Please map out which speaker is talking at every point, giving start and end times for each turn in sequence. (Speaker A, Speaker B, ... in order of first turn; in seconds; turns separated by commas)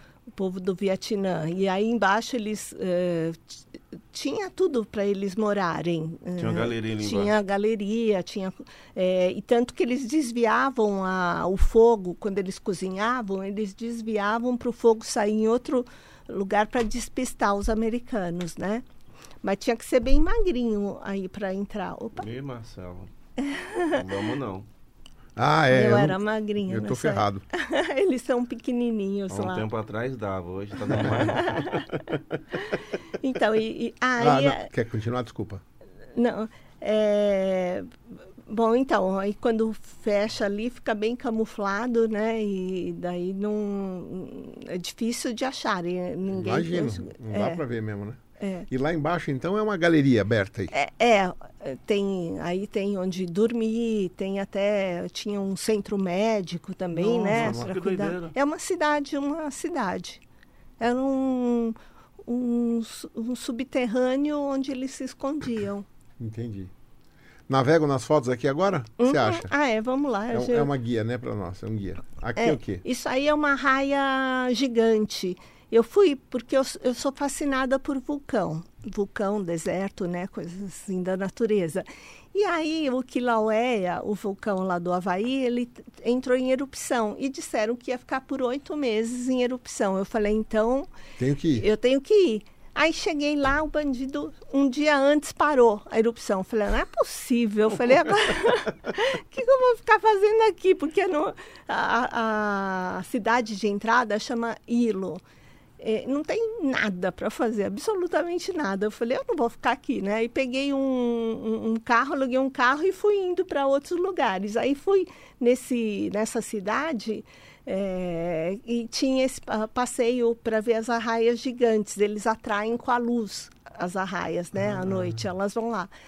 Speaker A: 0.3-18.8, Speaker B: 6.4-7.3, Speaker A: 19.4-22.2, Speaker B: 22.1-23.1, Speaker A: 23.4-24.1, Speaker B: 23.9-24.7, Speaker C: 25.4-27.4, Speaker A: 25.7-29.7, Speaker B: 29.3-32.4, Speaker A: 31.0-31.9, Speaker A: 33.2-34.7, Speaker C: 34.2-35.6, Speaker A: 36.1-37.9, Speaker A: 38.5-47.6, Speaker C: 46.3-50.7, Speaker A: 48.4-48.7, Speaker A: 50.7-60.2, Speaker B: 57.0-58.3, Speaker C: 57.1-57.7, Speaker A: 60.8-65.8, Speaker C: 66.2-66.7, Speaker C: 67.5-69.5, Speaker A: 69.0-70.7, Speaker C: 70.3-72.8, Speaker A: 72.4-90.9, Speaker C: 91.2-91.7, Speaker A: 91.5-105.2, Speaker A: 105.8-125.9, Speaker C: 124.6-125.2